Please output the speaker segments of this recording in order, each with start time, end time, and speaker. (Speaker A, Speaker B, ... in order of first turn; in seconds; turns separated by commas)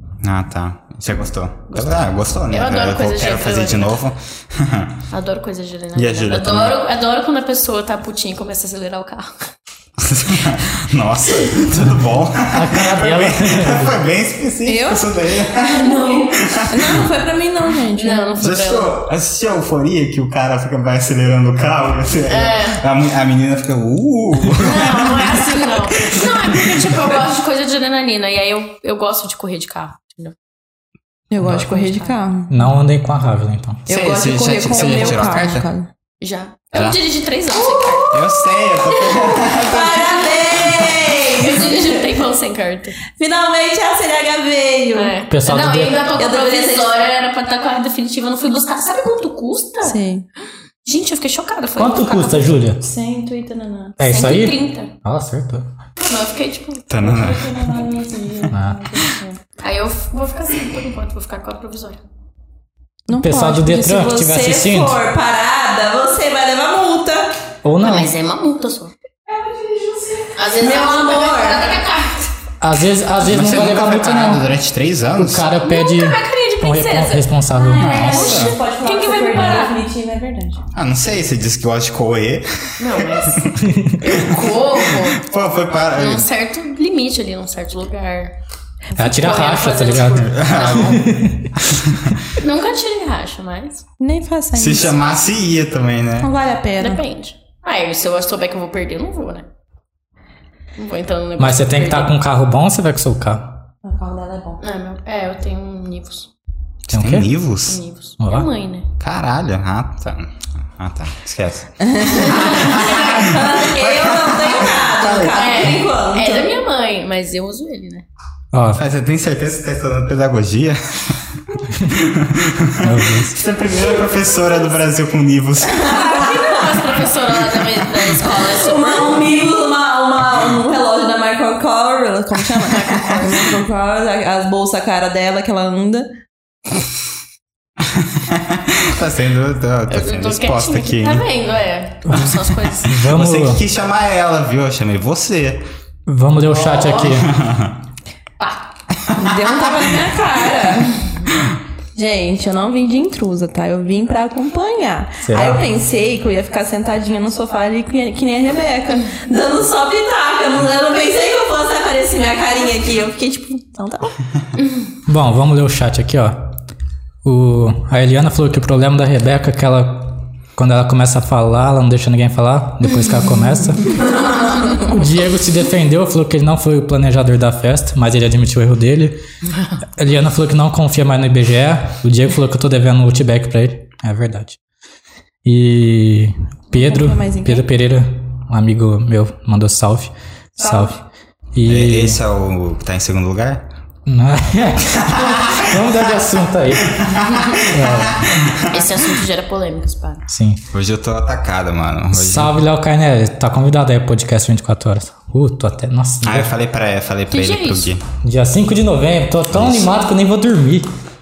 Speaker A: 0.2-5.0, Speaker B: 1.7-4.0, Speaker B: 5.1-9.5, Speaker A: 5.9-6.8, Speaker A: 10.0-17.1, Speaker C: 12.5-13.9, Speaker D: 14.7-18.3, Speaker B: 15.6-16.4, Speaker B: 17.9-18.9, Speaker A: 18.4-27.1, Speaker B: 22.3-22.8, Speaker B: 24.6-30.3, Speaker D: 31.3-32.6, Speaker B: 31.4-32.1, Speaker C: 32.5-33.8, Speaker D: 33.9-35.9, Speaker A: 33.9-35.7, Speaker B: 36.2-38.2, Speaker A: 36.7-37.0, Speaker D: 37.7-38.2, Speaker A: 38.1-41.1, Speaker D: 39.0-42.2, Speaker B: 41.2-43.0, Speaker D: 43.1-45.2, Speaker B: 44.9-50.0, Speaker C: 45.3-46.1, Speaker D: 46.1-46.9, Speaker D: 49.8-50.3, Speaker B: 50.8-52.6, Speaker C: 51.8-52.8, Speaker D: 52.8-54.0, Speaker C: 54.0-55.7, Speaker B: 54.1-54.9, Speaker B: 56.0-57.4, Speaker A: 56.9-57.6, Speaker D: 57.0-59.4, Speaker C: 58.5-58.8, Speaker B: 59.6-62.0, Speaker D: 63.1-67.3, Speaker C: 63.2-65.0, Speaker C: 67.6-68.1, Speaker B: 67.8-68.9, Speaker D: 69.3-71.9, Speaker B: 70.3-72.2, Speaker C: 72.6-74.4, Speaker A: 73.2-75.5, Speaker C: 75.2-78.5, Speaker B: 75.6-77.3, Speaker D: 77.5-80.6, Speaker A: 77.8-78.6, Speaker B: 78.0-79.8, Speaker A: 80.7-86.2, Speaker B: 82.8-83.5, Speaker C: 83.6-84.0, Speaker B: 84.0-85.2, Speaker B: 85.9-88.3, Speaker C: 89.0-91.5, Speaker B: 89.0-91.0, Speaker A: 90.2-91.1, Speaker A: 91.6-92.2, Speaker B: 92.3-93.8, Speaker D: 94.0-94.9, Speaker A: 94.5-96.3, Speaker D: 96.2-97.0, Speaker B: 96.8-99.5, Speaker B: 100.8-102.1, Speaker C: 101.4-103.6, Speaker D: 103.8-104.6, Speaker B: 104.6-106.3, Speaker A: 106.9-107.8, Speaker C: 106.9-107.3, Speaker B: 107.7-108.9, Speaker C: 108.2-108.5, Speaker A: 109.0-115.3, Speaker D: 111.8-116.5, Speaker B: 112.3-113.3, Speaker B: 115.3-118.0, Speaker C: 118.5-118.8, Speaker A: 118.7-121.3, Speaker A: 121.9-126.3, Speaker C: 122.8-123.4, Speaker D: 125.8-126.7, Speaker B: 125.8-129.1, Speaker D: 128.2-136.1, Speaker B: 132.7-133.4, Speaker A: 137.8-141.2, Speaker B: 139.9-143.0, Speaker C: 142.1-143.6, Speaker A: 142.9-145.7, Speaker C: 146.1-147.3, Speaker B: 146.4-147.2, Speaker A: 147.2-147.8, Speaker B: 148.4-148.7, Speaker A: 149.0-149.3, Speaker D: 149.1-151.1, Speaker D: 151.9-164.2, Speaker C: 155.2-155.6, Speaker C: 165.1-166.6, Speaker C: 167.2-179.2, Speaker C: 179.9-184.6, Speaker C: 185.4-191.0, Speaker D: 186.7-187.7, Speaker D: 190.6-190.9, Speaker C: 191.5-192.2, Speaker A: 191.6-193.7, Speaker C: 194.1-198.3, Speaker A: 197.0-199.0, Speaker B: 197.2-197.6, Speaker B: 198.7-200.2, Speaker C: 200.3-200.6, Speaker A: 200.7-202.6, Speaker C: 202.1-206.5, Speaker A: 206.2-208.0, Speaker B: 207.3-207.9, Speaker C: 208.2-210.9, Speaker A: 209.5-209.9